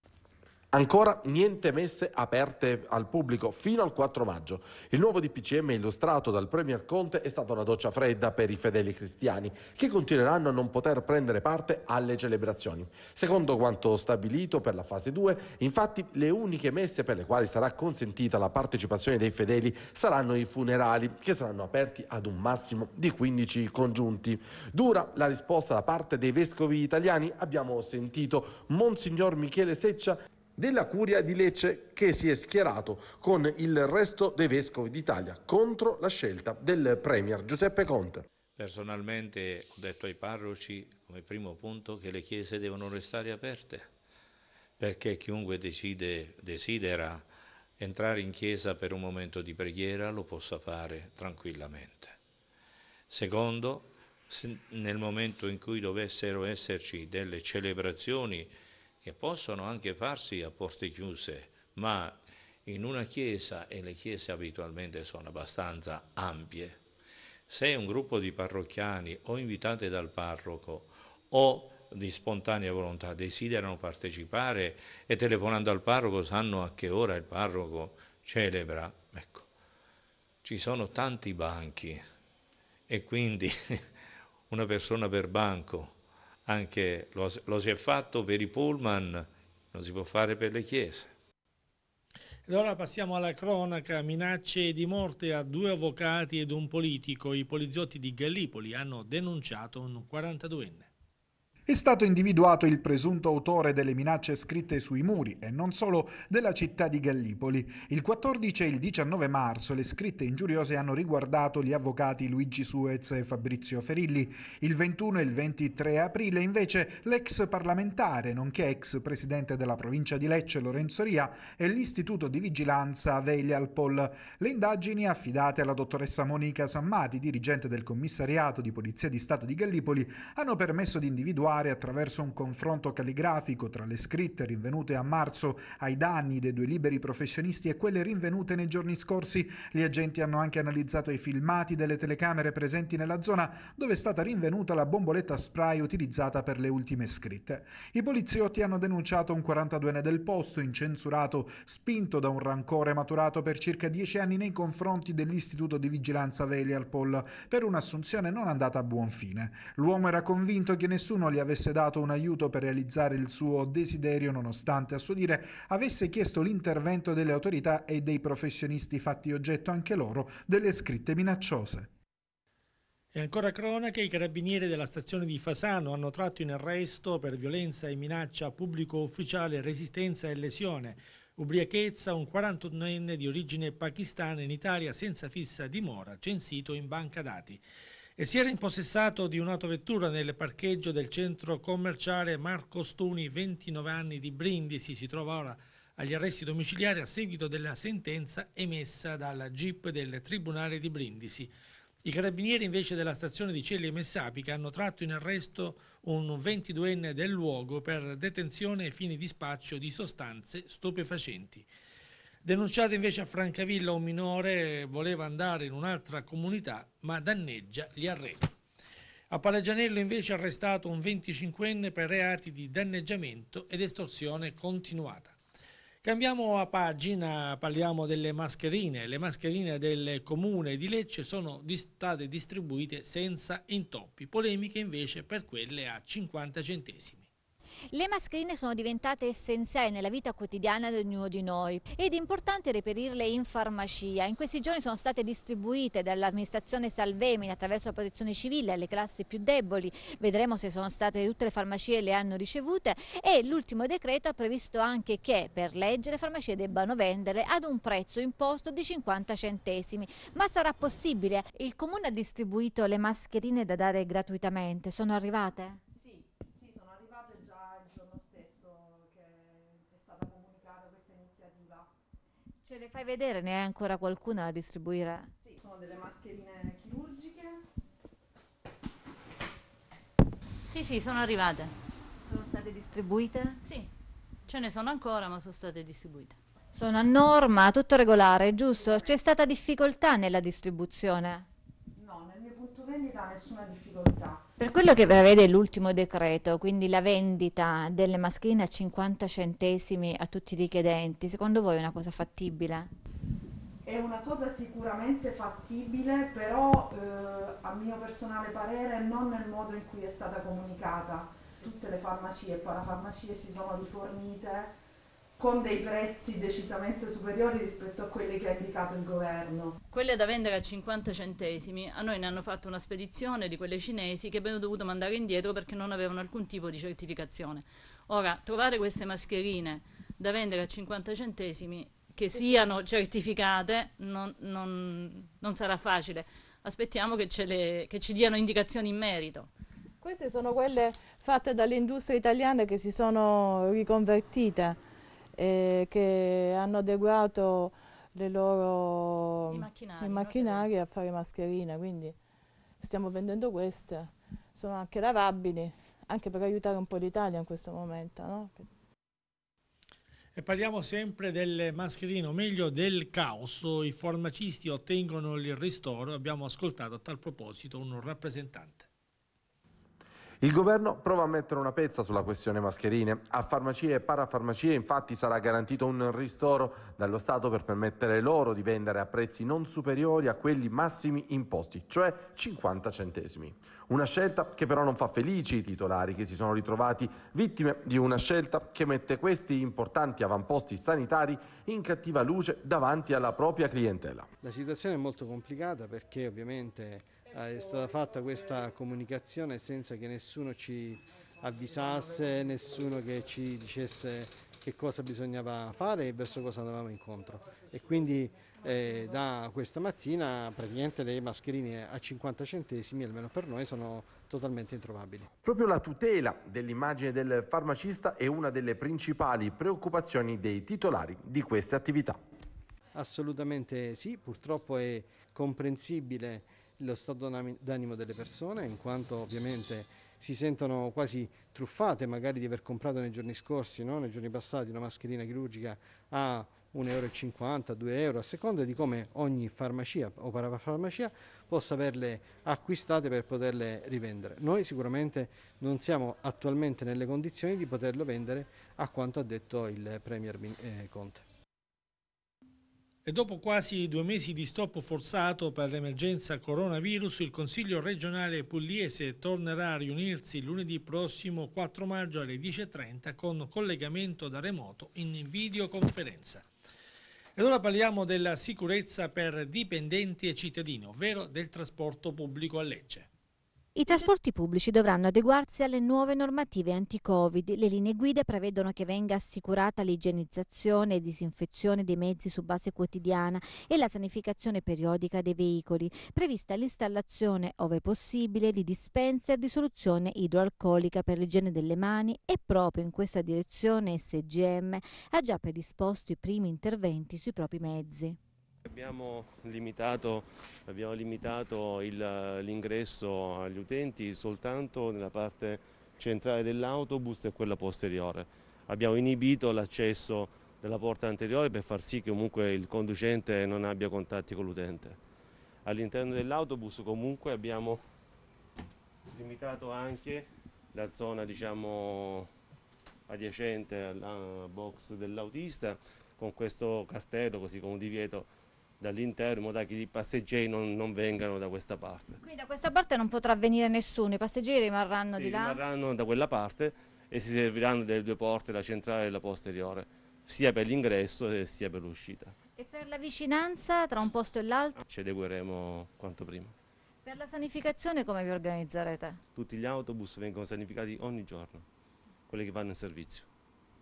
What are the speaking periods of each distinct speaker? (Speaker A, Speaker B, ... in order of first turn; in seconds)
Speaker A: 0.7-38.2, 370.4-394.3, 415.4-422.2
Speaker B: 38.5-43.9, 44.8-52.2, 53.1-66.8, 67.5-79.5, 80.4-82.1, 82.9-83.9, 84.5-91.1
Speaker C: 92.5-100.9, 173.1-187.6, 188.2-201.5, 202.0-211.7, 212.4-218.5, 219.3-225.4, 226.0-237.3, 360.4-368.9, 453.0-466.5, 467.4-473.1
Speaker D: 101.7-171.9
Speaker E: 237.9-265.8, 272.6-275.3, 282.2-283.6, 286.7-291.4, 294.6-302.9, 473.7-498.2, 532.2-535.6, 542.5-544.8, 547.0-549.2
Speaker F: 265.9-271.9, 275.4-277.6, 288.8-289.1, 291.9-294.4, 303.8-314.7, 315.4-319.8
Speaker G: 280.6-281.7, 283.6-283.9, 284.5-286.4, 319.9-339.5, 349.5-350.7
Speaker H: 340.0-344.8, 345.4-352.2, 352.8-358.6
Speaker I: 394.4-415.3, 422.9-451.2
Speaker J: 498.6-515.0, 515.6-517.8, 519.0-522.3, 523.1-528.3, 528.8-532.2, 535.1-542.4, 544.8-546.5, 549.3-551.6, 552.3-553.3